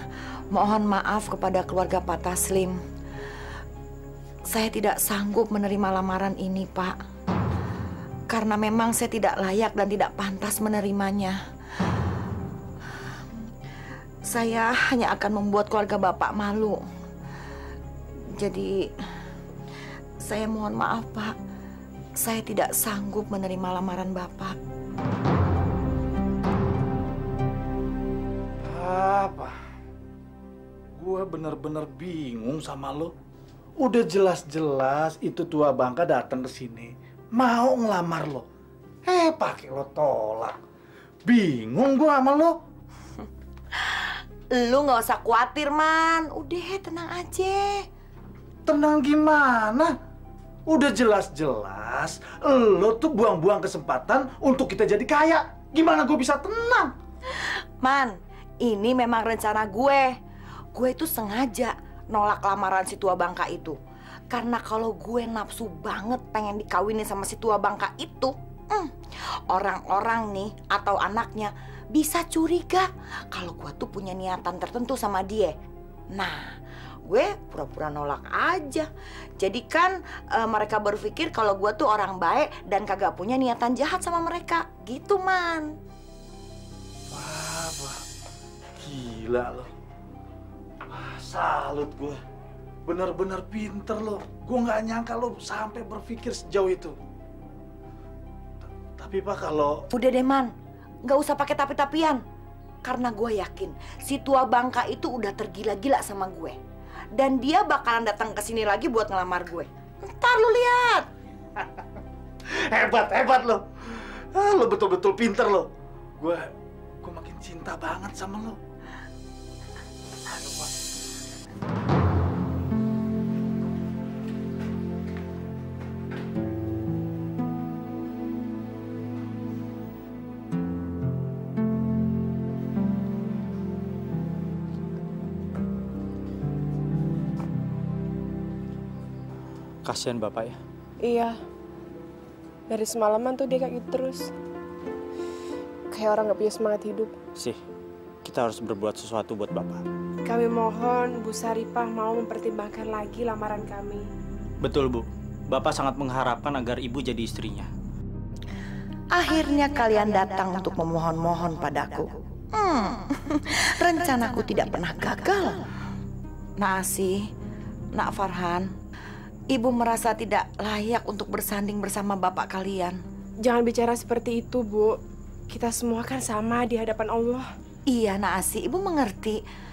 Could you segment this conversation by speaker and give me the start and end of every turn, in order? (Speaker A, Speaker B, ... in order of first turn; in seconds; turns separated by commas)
Speaker A: 0.5-2.8, Speaker A: 4.5-7.0, Speaker A: 8.3-11.4, Speaker A: 14.3-16.8, Speaker A: 18.3-18.9, Speaker A: 20.2-21.3, Speaker A: 22.2-24.6, Speaker B: 28.6-29.5, Speaker B: 31.0-33.1, Speaker B: 33.8-38.4, Speaker B: 39.0-40.5, Speaker B: 41.2-42.5, Speaker A: 44.5-47.8, Speaker B: 48.6-49.9, Speaker B: 50.7-56.9, Speaker A: 57.8-60.1, Speaker A: 60.7-63.8, Speaker A: 64.3-68.9, Speaker A: 69.5-75.5, Speaker A: 76.1-76.5, Speaker A: 77.0-78.9, Speaker A: 79.4-85.7, Speaker B: 87.1-88.0, Speaker B: 88.8-89.7, Speaker B: 90.9-92.2, Speaker B: 92.8-96.9, Speaker B: 99.0-99.8, Speaker A: 99.9-100.5, Speaker A: 101.0-102.2, Speaker A: 102.8-106.5, Speaker A: 107.2-111.0, Speaker B: 112.5-116.4, Speaker B: 117.0-118.6, Speaker B: 120.3-120.7, Speaker C: 139.8-140.6, Speaker D: 141.0-141.4, Speaker D: 142.7-144.3, Speaker D: 145.9-147.1, Speaker C: 148.2-149.8, Speaker D: 150.2-154.1, Speaker C: 154.6-157.7, Speaker A: 159.1-165.6, Speaker A: 166.6-167.3, Speaker A: 167.9-168.7, Speaker A: 169.5-173.0, Speaker D: 173.4-175.0, Speaker D: 175.5-177.5, Speaker A: 177.9-179.4